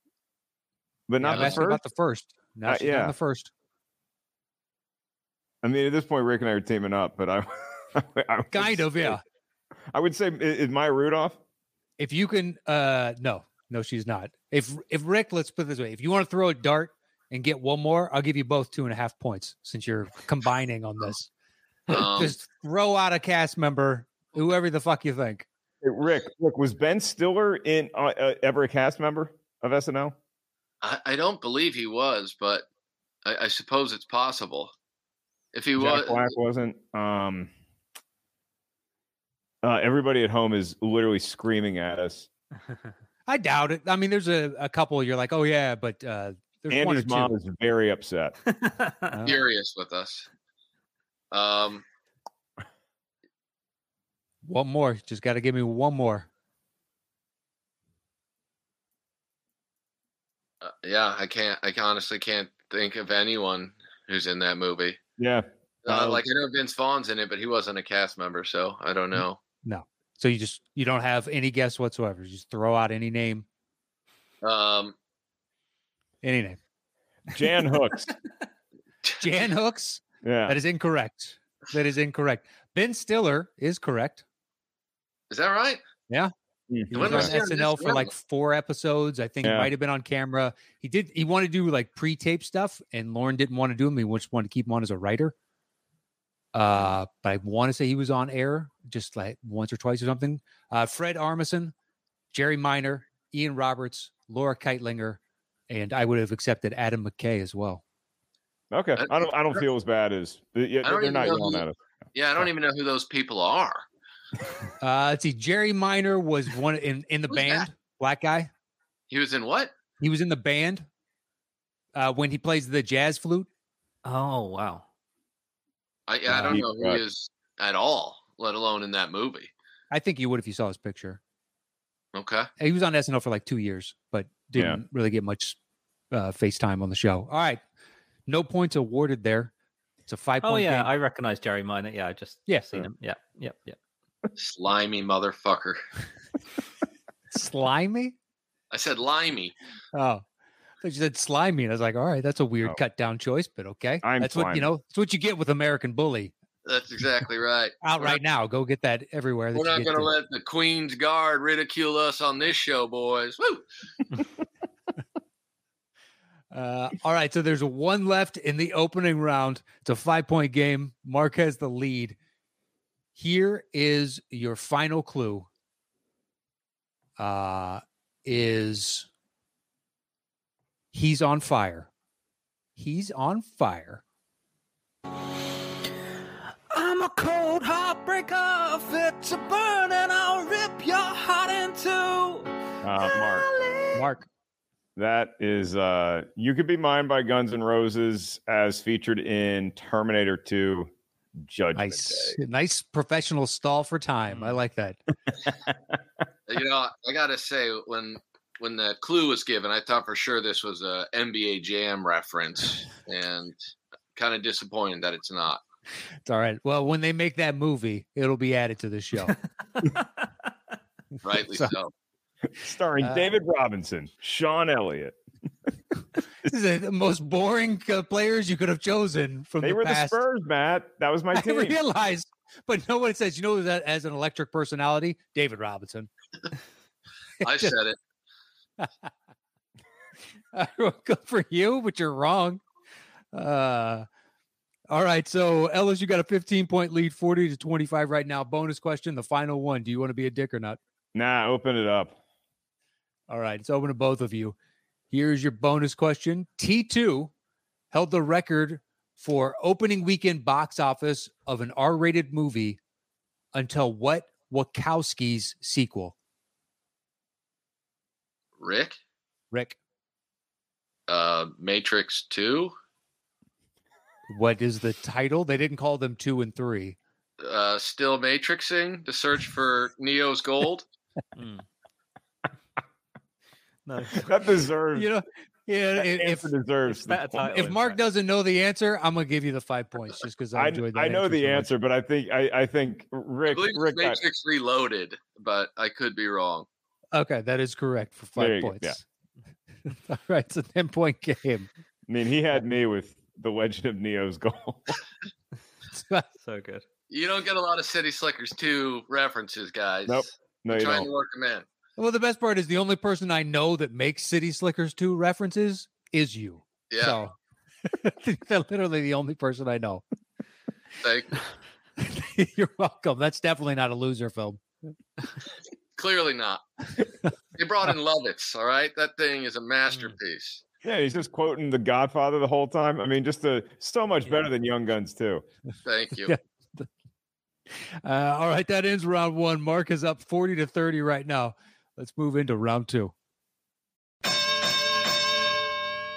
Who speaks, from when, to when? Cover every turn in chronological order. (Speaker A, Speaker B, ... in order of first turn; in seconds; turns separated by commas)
Speaker A: 1.1-1.8, Speaker B: 1.2-3.5, Speaker A: 2.7-3.1, Speaker A: 5.6-9.2, Speaker B: 8.5-9.2, Speaker A: 9.9-11.4, Speaker B: 12.0-21.3, Speaker C: 21.9-22.3, Speaker B: 21.9-25.5, Speaker A: 25.8-30.1, Speaker C: 30.8-32.6, Speaker C: 33.2-34.7, Speaker C: 35.5-36.3, Speaker A: 35.8-37.5, Speaker A: 39.6-42.3, Speaker B: 43.3-47.3, Speaker A: 46.7-48.4, Speaker D: 48.6-48.9, Speaker B: 49.1-49.4, Speaker C: 49.2-50.3, Speaker C: 51.3-51.8, Speaker B: 54.4-56.3, Speaker C: 60.6-65.0, Speaker A: 65.2-66.2, Speaker C: 65.8-69.4, Speaker B: 69.6-73.5, Speaker C: 74.4-74.9, Speaker B: 76.2-76.6, Speaker A: 77.3-78.1, Speaker B: 79.2-84.2, Speaker A: 80.2-80.6, Speaker C: 85.3-85.8, Speaker A: 86.7-87.3, Speaker B: 86.9-95.3, Speaker C: 86.9-88.1, Speaker A: 89.4-89.7, Speaker B: 96.5-101.7, Speaker B: 102.3-107.8, Speaker A: 108.7-111.8, Speaker C: 110.8-113.8, Speaker B: 114.8-118.5, Speaker C: 117.3-117.7, Speaker C: 119.1-119.7, Speaker B: 120.0-120.8, Speaker B: 121.9-123.5, Speaker D: 124.0-124.8, Speaker C: 126.1-129.5, Speaker A: 126.3-127.0, Speaker B: 126.3-126.6, Speaker B: 129.9-131.2, Speaker C: 132.1-132.5, Speaker B: 132.6-135.6, Speaker A: 134.5-134.8, Speaker B: 136.1-137.6, Speaker B: 138.3-139.5, Speaker B: 140.1-140.9, Speaker D: 140.4-143.8, Speaker B: 142.5-142.8, Speaker C: 144.3-145.8, Speaker B: 147.3-148.1, Speaker C: 148.7-149.6, Speaker B: 149.9-150.2, Speaker B: 150.8-156.3, Speaker A: 154.0-154.7, Speaker C: 156.6-158.2, Speaker B: 157.8-160.1, Speaker C: 159.5-163.6, Speaker B: 166.5-172.2, Speaker B: 173.1-175.5, Speaker B: 177.2-179.1, Speaker B: 180.9-181.9, Speaker B: 182.8-184.0, Speaker E: 186.7-194.1, Speaker A: 192.8-193.5, Speaker B: 193.9-194.3, Speaker A: 194.9-202.3, Speaker B: 201.8-205.0, Speaker D: 204.3-204.6, Speaker C: 206.5-213.6, Speaker C: 214.1-215.6, Speaker B: 216.2-219.4, Speaker D: 219.8-220.0, Speaker C: 221.2-221.9, Speaker A: 222.6-225.2, Speaker B: 223.0-223.3, Speaker B: 226.4-230.2, Speaker A: 229.6-231.8, Speaker B: 231.3-236.1, Speaker B: 237.4-237.7, Speaker C: 237.4-238.0, Speaker B: 238.8-239.1, Speaker B: 240.5-242.6, Speaker B: 243.3-244.1, Speaker B: 244.9-250.8, Speaker A: 251.1-252.2, Speaker B: 253.3-254.6, Speaker B: 255.1-257.3, Speaker B: 257.9-262.8, Speaker B: 263.5-266.1, Speaker C: 268.6-269.0, Speaker B: 269.5-269.8, Speaker C: 271.1-272.7, Speaker B: 274.3-277.0, Speaker C: 277.4-280.8, Speaker D: 281.4-281.6, Speaker D: 283.9-284.3, Speaker A: 284.1-285.1, Speaker B: 284.9-286.5, Speaker A: 286.0-287.5, Speaker D: 286.9-288.0, Speaker B: 287.5-291.7, Speaker A: 290.5-294.2, Speaker C: 293.5-296.7, Speaker B: 297.1-299.0, Speaker A: 298.4-299.0, Speaker B: 299.9-301.7, Speaker A: 302.1-305.0, Speaker B: 305.9-306.2, Speaker D: 306.4-306.8, Speaker C: 307.1-311.6, Speaker A: 310.1-311.1, Speaker B: 312.0-317.3, Speaker C: 316.9-317.2, Speaker B: 317.9-320.0, Speaker C: 321.0-321.4, Speaker B: 322.0-324.6, Speaker C: 326.0-326.6, Speaker C: 327.5-330.6, Speaker A: 330.8-335.4, Speaker C: 335.8-336.3, Speaker B: 336.2-336.9, Speaker B: 338.0-343.1